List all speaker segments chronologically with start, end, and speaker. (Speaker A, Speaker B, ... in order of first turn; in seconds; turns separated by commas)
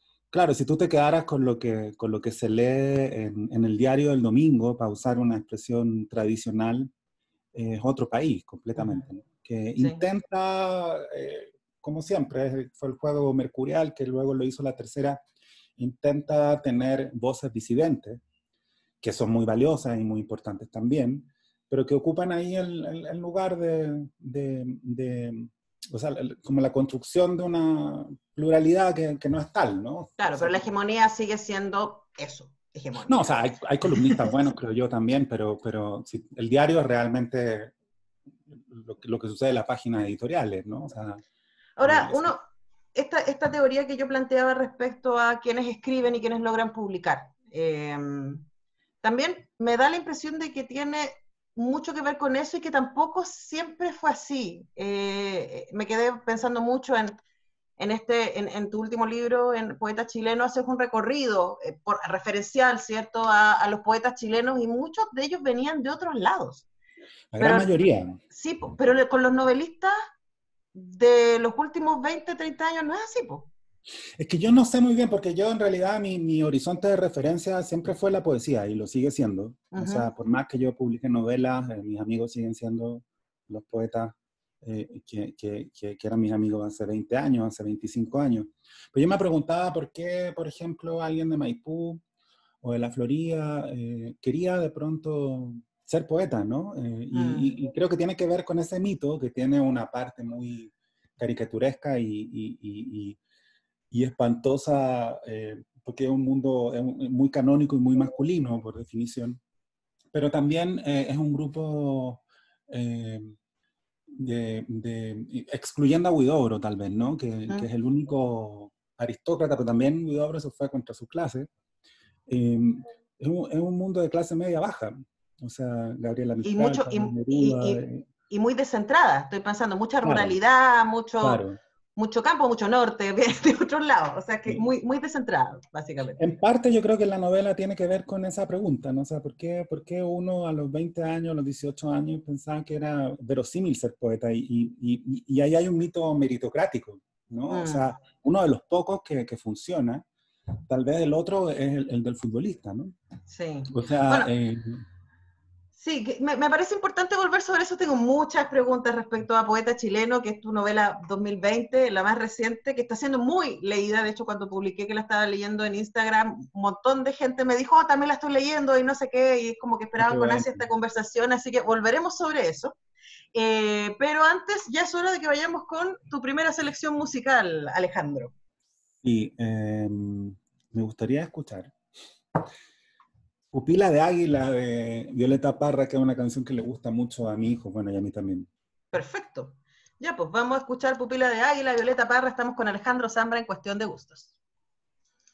Speaker A: 0.3-6.9, Speaker A: 7.5-15.2, Speaker B: 8.8-9.0, Speaker B: 9.8-10.0, Speaker A: 15.8-18.2, Speaker A: 19.0-30.6, Speaker B: 30.2-34.4, Speaker A: 33.0-37.7, Speaker A: 38.5-41.2, Speaker B: 41.8-42.4, Speaker A: 41.8-42.3, Speaker B: 43.0-48.5, Speaker B: 49.0-57.1, Speaker B: 57.8-66.7, Speaker A: 67.3-68.2, Speaker B: 67.4-67.7, Speaker B: 68.3-69.9, Speaker B: 70.8-73.5, Speaker A: 74.2-92.0, Speaker B: 79.7-80.1, Speaker A: 92.6-103.2, Speaker B: 97.1-97.5, Speaker A: 103.9-109.4, Speaker A: 110.1-113.4, Speaker A: 114.2-121.5, Speaker A: 122.3-128.0, Speaker B: 126.4-131.4, Speaker A: 130.0-130.4, Speaker A: 131.2-131.6, Speaker B: 132.0-136.2, Speaker A: 136.2-150.1, Speaker B: 147.5-147.9, Speaker A: 150.7-152.9, Speaker B: 153.3-154.3, Speaker A: 153.7-154.8, Speaker B: 155.8-172.8, Speaker A: 170.0-170.6, Speaker B: 173.3-178.3, Speaker A: 179.0-181.7, Speaker A: 183.5-188.5, Speaker B: 188.9-194.3